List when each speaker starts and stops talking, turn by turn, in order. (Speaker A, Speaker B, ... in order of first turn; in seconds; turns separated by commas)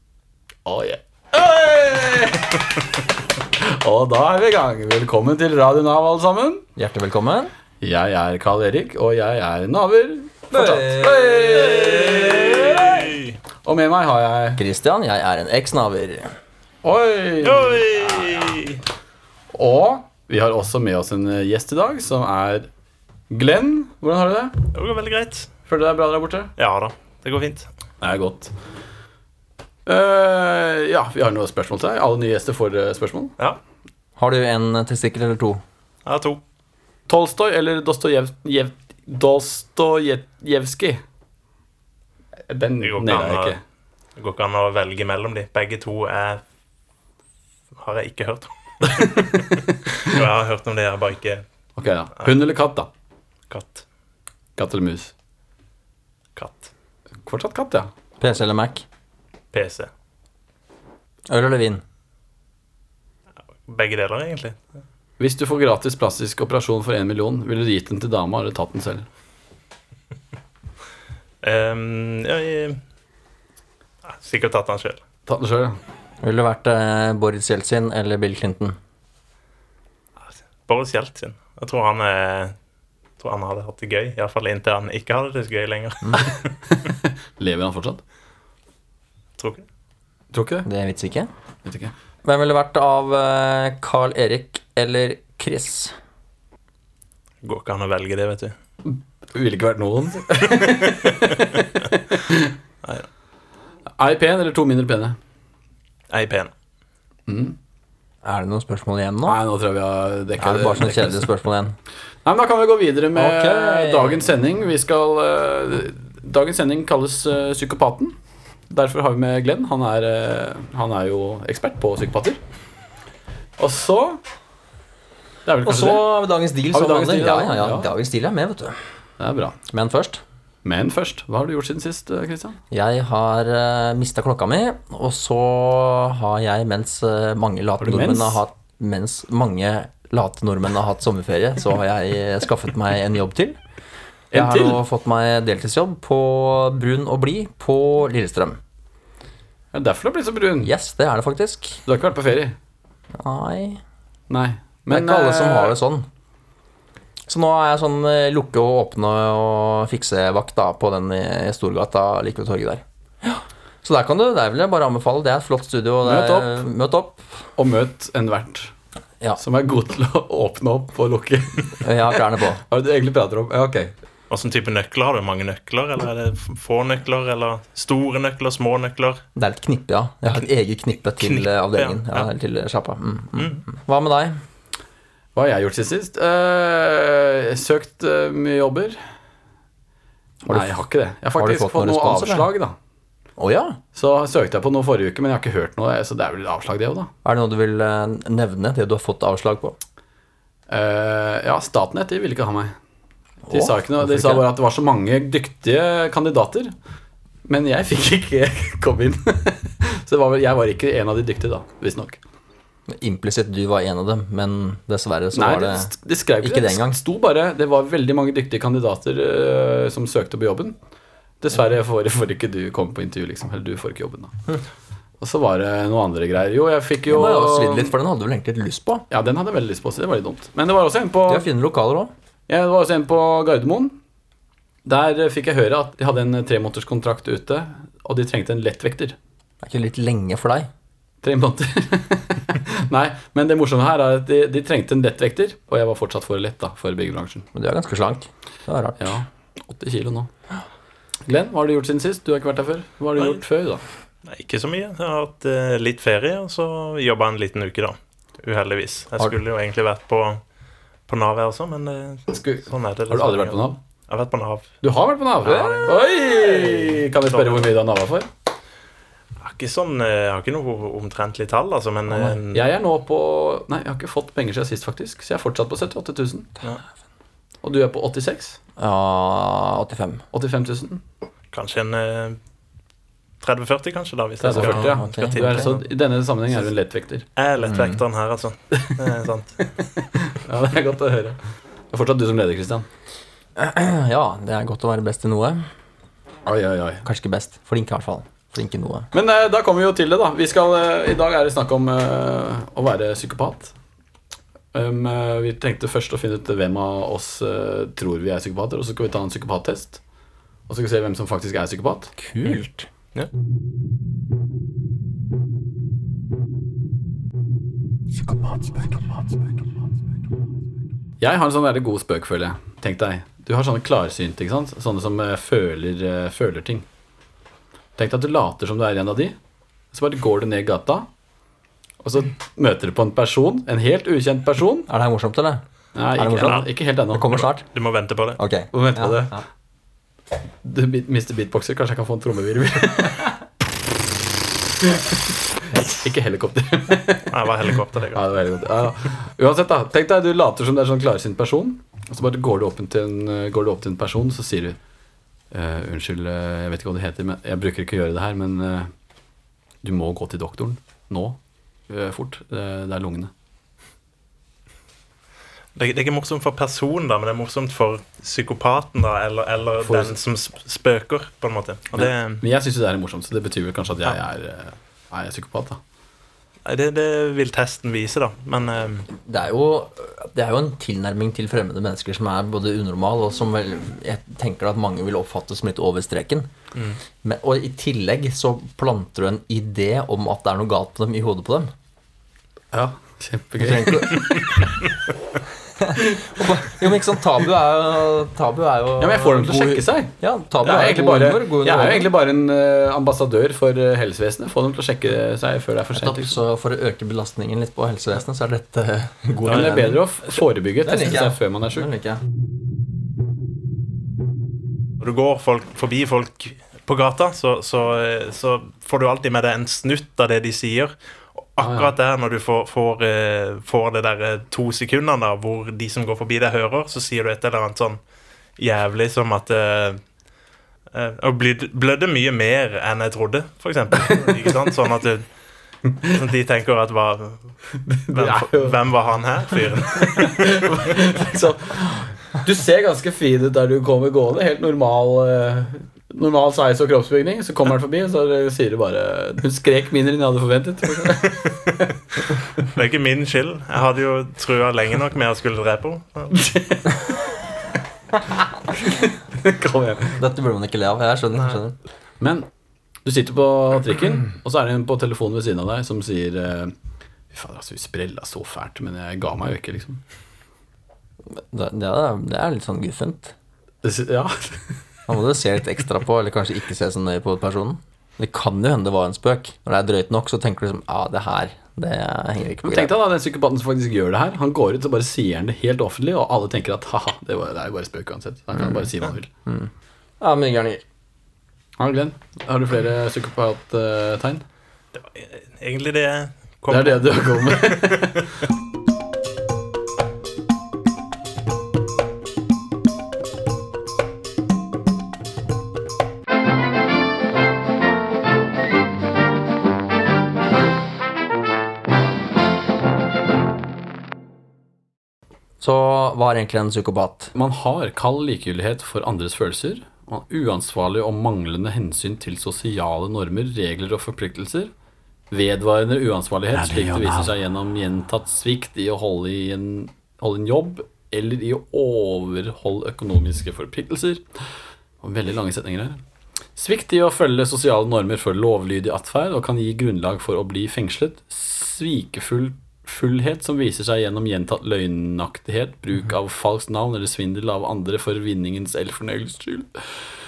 Speaker A: 0.6-6.6, Speaker B: 6.8-7.5, Speaker A: 7.8-14.6, Speaker B: 10.5-12.5, Speaker C: 12.4-13.3, Speaker B: 14.6-16.3, Speaker A: 16.8-18.4, Speaker C: 17.4-18.8, Speaker A: 19.5-22.7, Speaker A: 23.3-24.6, Speaker C: 24.7-25.5, Speaker A: 25.7-26.5, Speaker C: 26.6-27.7, Speaker A: 28.0-28.5, Speaker A: 29.8-33.3, Speaker B: 34.2-35.6, Speaker C: 36.0-36.4, Speaker A: 37.1-41.0, Speaker A: 42.5-43.6, Speaker C: 42.8-43.6, Speaker C: 44.2-46.4, Speaker C: 47.8-51.4, Speaker A: 49.0-49.9, Speaker A: 51.8-52.9, Speaker C: 53.5-53.8, Speaker A: 54.6-55.1, Speaker C: 56.4-56.7, Speaker A: 57.2-57.9, Speaker B: 58.2-58.8, Speaker C: 59.5-59.9, Speaker B: 61.3-61.8, Speaker C: 63.6-64.6, Speaker A: 65.2-69.1, Speaker C: 71.4-72.8, Speaker C: 74.0-75.0, Speaker A: 75.3-75.8, Speaker B: 76.2-78.8, Speaker C: 80.2-82.5, Speaker C: 83.2-86.5, Speaker A: 86.8-88.0, Speaker C: 89.4-89.6, Speaker A: 90.3-90.7, Speaker B: 90.7-91.3, Speaker A: 91.6-91.9, Speaker B: 92.2-95.9, Speaker C: 97.4-98.5, Speaker A: 98.8-102.5, Speaker A: 104.0-105.2, Speaker C: 106.1-106.5, Speaker A: 107.3-107.5, Speaker B: 108.2-109.4, Speaker A: 109.2-111.3, Speaker B: 110.4-111.8, Speaker A: 112.2-118.1, Speaker B: 113.2-114.3, Speaker A: 118.7-122.4, Speaker A: 123.6-124.2, Speaker A: 125.5-126.1, Speaker B: 125.6-128.8, Speaker A: 126.7-127.9, Speaker A: 129.2-129.6, Speaker B: 129.7-130.2, Speaker A: 130.6-132.6, Speaker B: 132.7-143.6, Speaker A: 137.8-138.4, Speaker A: 144.3-144.8, Speaker B: 144.3-148.6, Speaker A: 149.7-150.7, Speaker B: 150.6-151.8, Speaker A: 151.8-152.5, Speaker B: 153.2-153.8, Speaker A: 154.3-155.7, Speaker B: 154.9-156.0, Speaker B: 157.3-167.2, Speaker A: 166.0-166.6, Speaker A: 167.6-168.7, Speaker A: 169.4-171.9, Speaker B: 171.8-172.6, Speaker A: 172.6-173.9, Speaker C: 174.3-179.2, Speaker B: 179.3-184.3, Speaker C: 181.2-182.3, Speaker C: 183.3-183.6, Speaker A: 185.3-189.0, Speaker A: 190.4-192.7, Speaker B: 190.5-190.7, Speaker B: 191.3-192.5, Speaker B: 193.4-193.8, Speaker A: 193.9-197.1, Speaker B: 197.2-199.8, Speaker A: 200.7-202.7, Speaker B: 203.4-204.4, Speaker A: 203.5-206.7, Speaker A: 207.4-212.2, Speaker B: 212.9-217.0, Speaker A: 215.3-220.7, Speaker A: 221.4-224.3, Speaker A: 225.2-227.9, Speaker B: 227.1-229.0, Speaker A: 229.1-231.5, Speaker B: 231.3-232.1, Speaker A: 232.5-233.9, Speaker A: 234.8-239.2, Speaker B: 239.6-240.7, Speaker A: 241.2-247.5, Speaker B: 247.5-249.2, Speaker A: 249.0-250.3, Speaker A: 251.3-253.8, Speaker C: 254.2-260.4, Speaker C: 261.1-264.7, Speaker A: 262.3-263.8, Speaker A: 264.8-268.3, Speaker B: 265.4-267.0, Speaker C: 267.3-267.7, Speaker C: 269.4-272.7, Speaker B: 272.1-272.4, Speaker A: 272.5-276.5, Speaker A: 277.6-278.6, Speaker B: 278.8-280.2, Speaker A: 280.3-281.0, Speaker C: 281.5-282.4, Speaker C: 283.4-285.8, Speaker A: 284.4-287.2, Speaker B: 284.5-285.8, Speaker C: 287.4-289.6, Speaker B: 287.6-288.0, Speaker A: 289.8-291.4, Speaker A: 291.9-292.9, Speaker B: 293.6-295.6, Speaker A: 296.4-297.0, Speaker B: 297.0-299.1, Speaker A: 299.1-303.7, Speaker A: 304.7-310.0, Speaker A: 310.7-312.1, Speaker B: 312.2-312.9, Speaker B: 318.3-318.9, Speaker A: 321.2-326.9, Speaker A: 328.0-329.3, Speaker A: 329.9-331.1, Speaker A: 332.0-334.9, Speaker B: 334.9-335.6, Speaker A: 335.9-337.4, Speaker B: 336.1-337.6, Speaker C: 337.3-338.4, Speaker B: 338.4-339.4, Speaker A: 338.7-339.4, Speaker A: 340.6-343.4, Speaker A: 344.8-347.3, Speaker C: 347.3-348.2, Speaker A: 348.1-354.8, Speaker A: 355.5-358.9, Speaker A: 359.8-361.4, Speaker A: 361.9-363.3, Speaker C: 365.8-372.4, Speaker A: 369.8-370.2, Speaker A: 371.9-375.8, Speaker C: 376.6-379.1, Speaker B: 379.2-386.5, Speaker B: 387.2-391.7, Speaker A: 392.7-394.6, Speaker B: 393.6-394.4, Speaker B: 395.8-402.1, Speaker A: 399.0-406.4, Speaker B: 405.9-412.2, Speaker A: 409.4-411.9, Speaker C: 409.5-409.9, Speaker C: 415.0-420.9, Speaker C: 421.5-428.0, Speaker A: 421.6-421.9, Speaker C: 428.6-430.0, Speaker C: 430.9-435.2, Speaker A: 434.1-434.5, Speaker C: 436.0-437.5, Speaker A: 437.7-438.8, Speaker C: 438.1-440.6, Speaker A: 439.5-451.9, Speaker C: 452.6-456.5, Speaker A: 456.3-457.0, Speaker A: 458.8-460.2, Speaker B: 460.2-461.8, Speaker A: 462.2-462.4, Speaker A: 463.0-466.7, Speaker A: 467.3-470.0, Speaker B: 471.3-473.3, Speaker A: 473.8-474.6, Speaker B: 475.1-482.9, Speaker A: 482.6-489.3, Speaker B: 489.5-490.8, Speaker A: 491.8-494.4, Speaker C: 494.9-498.3, Speaker A: 496.7-498.4, Speaker B: 515.6-517.3, Speaker A: 517.3-524.7, Speaker A: 525.3-534.2, Speaker B: 526.5-527.3, Speaker A: 535.0-536.0, Speaker A: 536.5-549.8